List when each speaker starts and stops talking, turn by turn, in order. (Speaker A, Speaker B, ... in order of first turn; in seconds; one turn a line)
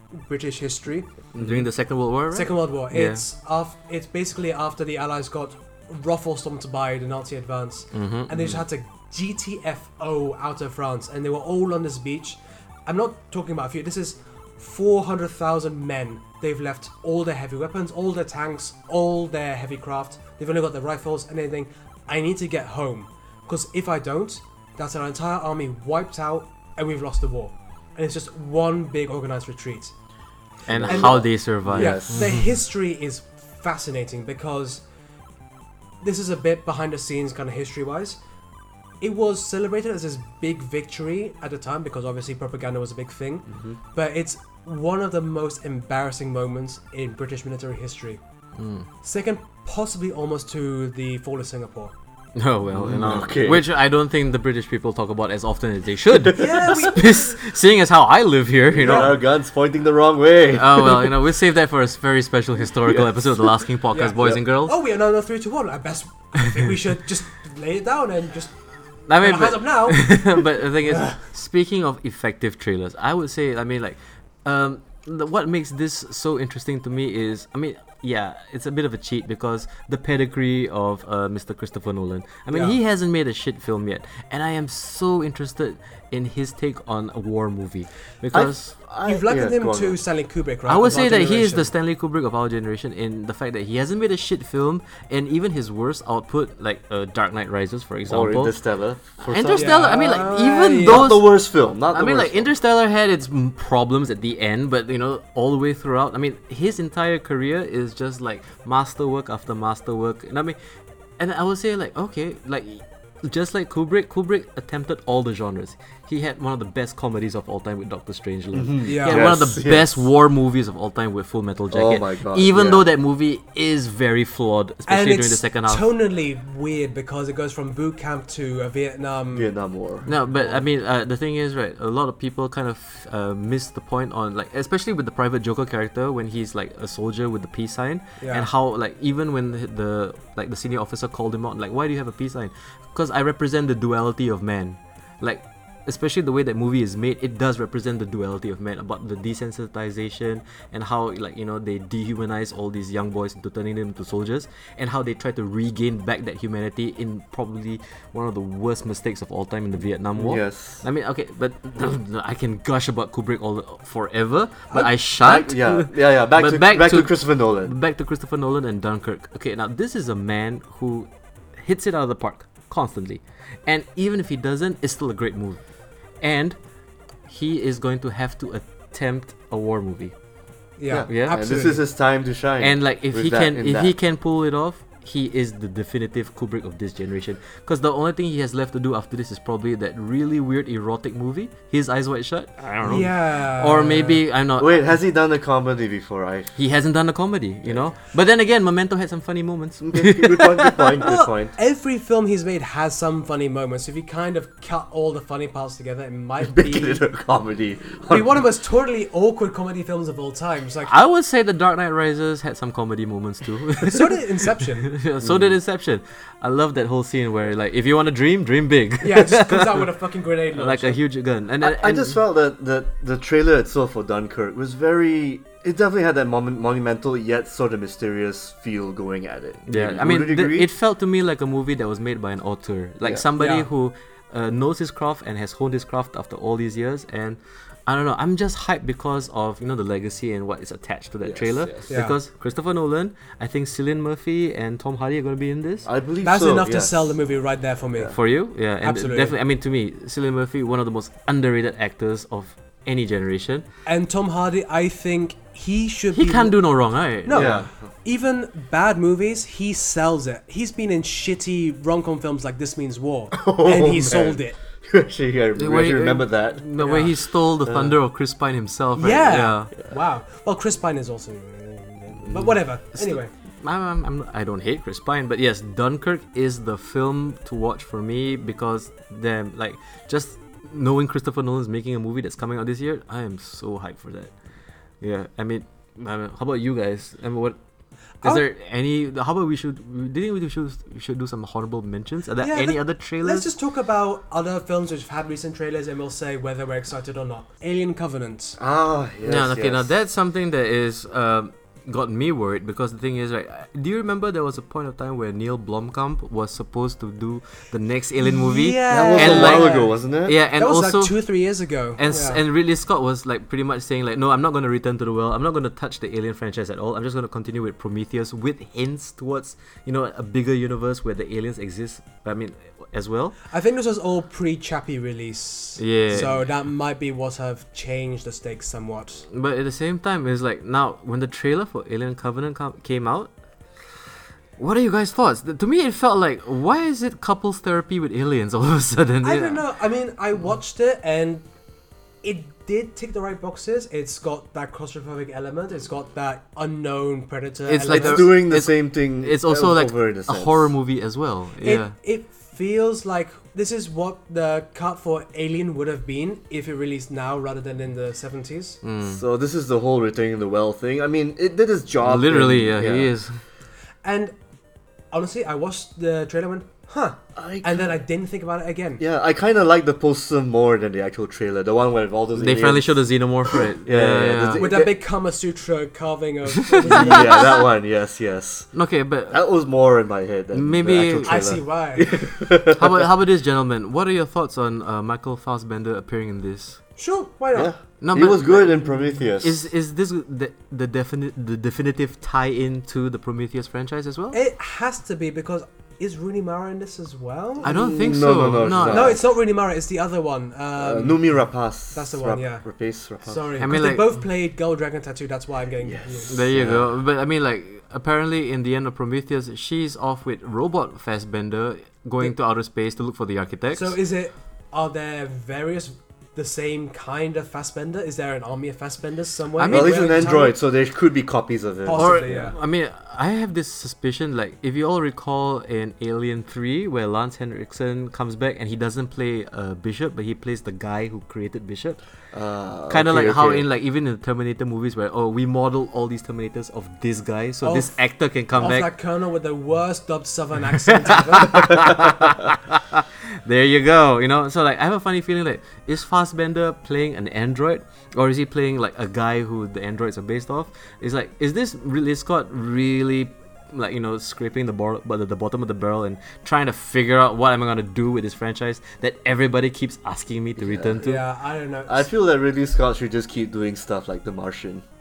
Speaker A: 0.1-1.1
Speaker B: 1.4-1.6
Speaker C: 1.4-3.2
Speaker A: 2.3-29.9
Speaker C: 7.9-8.5
Speaker C: 30.7-32.4
Speaker B: 30.7-32.3
Speaker A: 30.9-34.8
Speaker A: 36.0-38.2
Speaker A: 39.0-48.2
Speaker C: 48.6-48.9
Speaker A: 49.0-51.9
Speaker C: 52.4-59.1
Speaker B: 52.7-53.6
Speaker A: 56.3-57.4
Speaker B: 58.7-61.1
Speaker A: 58.8-59.1
Speaker C: 60.5-64.7
Speaker B: 62.9-63.5
Speaker A: 63.9-68.5
Speaker C: 69.1-88.7
Speaker A: 69.2-70.2
Speaker A: 82.5-82.8
Speaker B: 88.3-90.0
Speaker A: 89.0-91.7
Speaker C: 90.7-98.5
Speaker B: 98.1-100.0
Speaker C: 99.2-101.3
Speaker A: 99.5-101.1
Speaker B: 100.8-102.5
Speaker C: 101.9-110.6
Speaker C: 111.2-125.9
Speaker B: 118.5-120.0
Speaker A: 118.8-119.2
Speaker B: 121.7-122.9
Speaker A: 124.9-129.5
Speaker B: 129.3-130.1
Speaker A: 130.1-130.6
Speaker C: 130.1-175.6
Speaker A: 138.2-138.5
Speaker B: 160.2-160.8
Speaker B: 164.7-167.7
Speaker C: 176.2-176.6
Speaker C: 177.3-180.1
Speaker A: 180.8-181.8
Speaker B: 180.9-183.9
Speaker C: 181.1-181.5
Speaker C: 182.6-194.8
Speaker A: 192.8-194.2
Speaker B: 194.6-196.5
Speaker C: 196.6-201.0
Speaker B: 199.8-201.5
Speaker A: 201.0-207.0
Speaker B: 206.4-208.3
Speaker A: 208.1-210.9
Speaker C: 210.8-219.9
Speaker A: 213.8-214.9
Speaker A: 219.0-221.0
Speaker C: 220.5-222.2
Speaker B: 221.6-230.7
Speaker C: 229.7-245.9
Speaker A: 233.4-233.7
Speaker B: 241.2-241.9
Speaker A: 241.9-242.1
Speaker B: 245.8-247.1
Speaker A: 246.2-248.2
Speaker C: 248.1-253.7
Speaker A: 248.8-249.3
Speaker A: 253.9-256.6
Speaker C: 256.1-257.6
Speaker A: 257.2-264.6
Speaker B: 257.3-257.7
Speaker B: 263.3-266.6
Speaker C: 265.6-269.7
Speaker A: 266.8-267.1
Speaker B: 267.6-267.9
Speaker A: 269.0-273.3
Speaker C: 272.3-284.3
Speaker C: 285.0-287.6
Speaker C: 288.2-293.5
Speaker A: 292.4-298.6
Speaker B: 298.6-299.9
Speaker C: 299.3-311.2
Speaker A: 308.2-309.9
Speaker B: 308.9-310.4
Speaker A: 310.6-312.4
Speaker C: 312.0-323.4
Speaker A: 323.5-329.2
Speaker C: 325.8-326.4
Speaker C: 329.3-333.3
Speaker C: 334.6-339.6
Speaker A: 339.2-341.4
Speaker A: 342.2-348.4
Speaker C: 347.7-351.9
Speaker B: 347.9-350.7
Speaker A: 351.6-358.8
Speaker C: 358.8-359.2
Speaker B: 359.1-363.1
Speaker C: 362.0-363.4
Speaker A: 364.0-364.3
Speaker A: 365.1-369.0
Speaker B: 367.4-367.9
Speaker B: 369.0-374.9
Speaker C: 372.4-374.8
Speaker A: 374.6-377.4
Speaker C: 376.7-377.4
Speaker B: 376.8-378.7
Speaker C: 378.7-379.4
Speaker B: 379.3-383.0
Speaker C: 380.5-381.5
Speaker A: 381.2-382.1
Speaker C: 382.7-386.8
Speaker A: 387.0-387.7
Speaker B: 387.5-389.6
Speaker C: 388.0-388.8
Speaker C: 389.4-394.4
Speaker A: 394.3-397.7
Speaker C: 397.6-399.2
Speaker B: 397.6-399.2
Speaker A: 398.9-401.2
Speaker B: 400.8-403.5
Speaker A: 401.9-402.6
Speaker A: 403.2-406.4
Speaker C: 403.6-404.1
Speaker B: 405.8-406.9
Speaker C: 406.3-414.0
Speaker A: 413.7-420.6
Speaker C: 419.6-420.3
Speaker B: 419.7-422.4
Speaker A: 421.9-422.6
Speaker C: 421.9-432.0
Speaker B: 432.3-433.6
Speaker C: 432.9-438.9
Speaker A: 437.6-438.0
Speaker A: 438.6-441.7
Speaker C: 440.9-461.2
Speaker B: 460.6-461.2
Speaker A: 461.0-462.1
Speaker B: 461.9-464.8